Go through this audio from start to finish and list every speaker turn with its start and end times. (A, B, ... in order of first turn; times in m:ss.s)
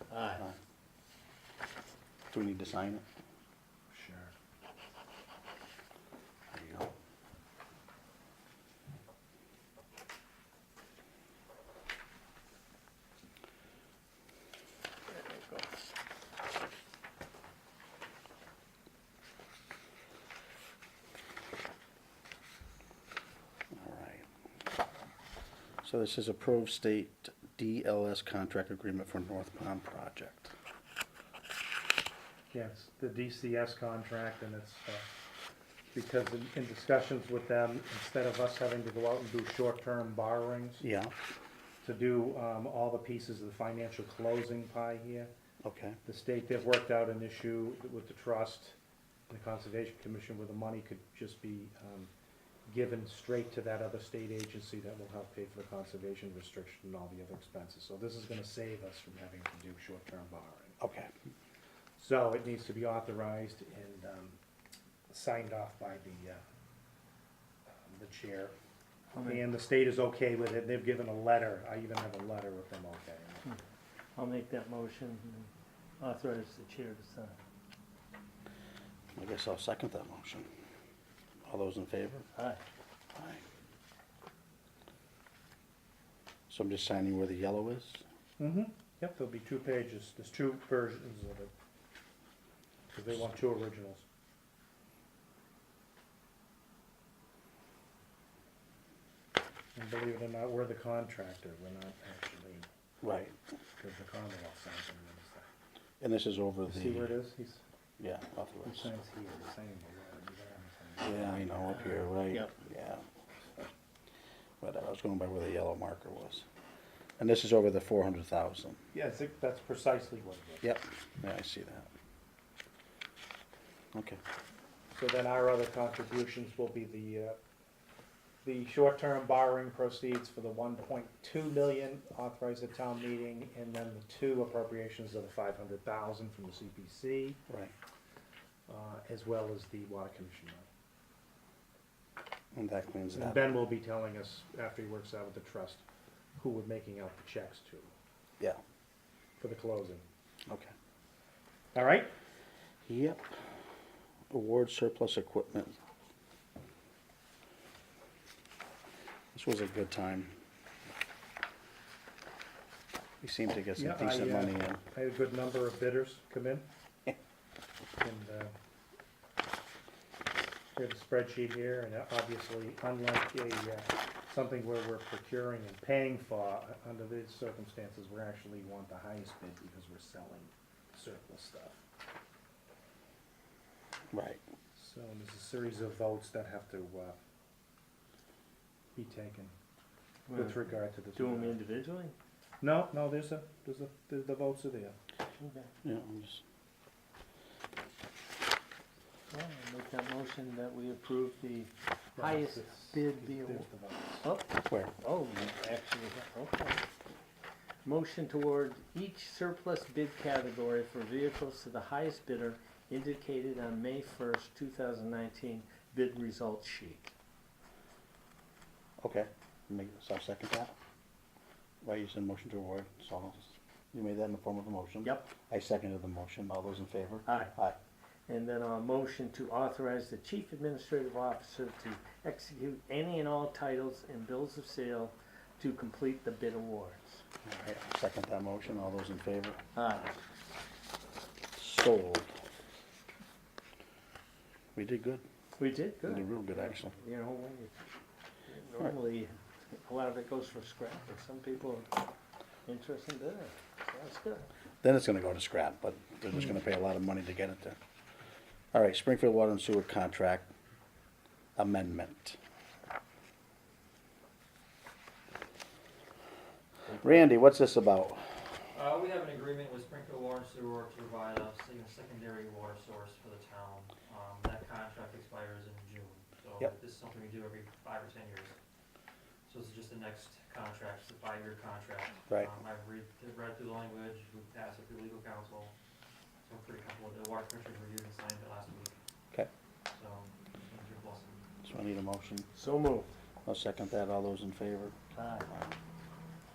0:00.1-0:00.4 A
0:02.3-0:03.0 B
0:03.9-0:04.3 C
0:06.5-0:06.9 B
0:15.1-0:15.7 A
0:23.7-0:24.3 B
0:25.8-0:30.5 B
0:32.5-0:35.0 C
0:35.9-0:40.8 C
0:40.8-0:41.1 B
0:41.8-0:45.3 C
0:45.6-0:46.0 B
0:46.0-0:48.8 C
0:49.3-0:52.1 C
0:52.7-1:00.8 C
1:00.8-1:01.1 B
1:02.0-1:04.4 C
1:05.1-1:06.4 C
1:07.7-1:08.6 C
1:09.1-1:09.4 A
1:09.2-1:13.5 C
1:14.2-1:17.4 A
1:19.2-1:20.5 B
1:21.4-1:22.3 B
1:22.4-1:22.6 A
1:23.2-1:23.4 B
1:26.5-1:28.0 B
1:28.4-1:31.5 C
1:32.9-1:34.0 C
1:39.8-1:42.7 C
1:43.0-1:43.4 B
1:43.8-1:45.5 C
1:46.0-1:47.2 B
1:46.7-1:47.6 C
1:48.0-1:48.9 B
1:48.6-1:51.8 C
1:51.0-1:53.0 B
1:51.8-1:52.6 A
1:54.6-1:56.4 B
1:57.2-1:58.8 B
1:58.9-2:00.7 C
2:00.6-2:01.9 B
2:03.9-2:04.2 B
2:04.9-2:07.4 C
2:08.4-2:17.4 C
2:18.7-2:20.7 C
2:22.5-2:23.5 B
2:23.1-2:25.8 C
2:26.4-2:27.9 C
2:29.4-2:30.0 C
2:30.5-2:30.7 B
2:31.7-2:32.1 C
2:32.9-2:33.4 B
2:34.3-2:35.8 B
2:39.3-2:40.3 B
2:43.2-2:44.8 B
2:43.8-2:46.7 C
2:48.0-2:48.5 C
2:50.8-3:01.8 C
3:04.1-3:04.4 B
3:04.8-3:07.2 C
3:09.0-3:09.5 C
3:10.3-3:12.2 A
3:10.3-3:11.6 C
3:12.6-3:15.0 C
3:15.4-3:15.7 A
3:15.8-3:16.4 B
3:19.3-3:23.7 A
3:22.2-3:24.3 C
3:24.2-3:26.9 A
3:24.7-3:24.9 B
3:27.8-3:37.1 A
3:39.0-3:40.8 B
3:41.8-3:47.8 B
3:45.0-3:45.3 A
3:47.3-3:47.5 A
3:48.3-3:57.2 A
3:57.4-3:59.6 B
3:59.8-4:00.2 A
4:01.6-4:02.3 B
4:04.8-4:05.2 B
4:05.6-4:07.9 A
4:06.1-4:07.0 B
4:08.5-4:11.9 A
4:12.7-4:14.5 A
4:14.8-4:17.8 B
4:18.7-4:20.5 B
4:21.6-4:22.4 B
4:26.9-4:28.4 B
4:28.7-4:38.6 D
4:39.5-4:45.7 D
4:46.4-4:49.0 D
4:49.9-4:51.4 D
4:51.6-4:52.5 B
4:52.6-4:53.1 A
4:53.5-4:55.0 B
4:55.2-4:55.5 A
4:55.5-4:55.8 B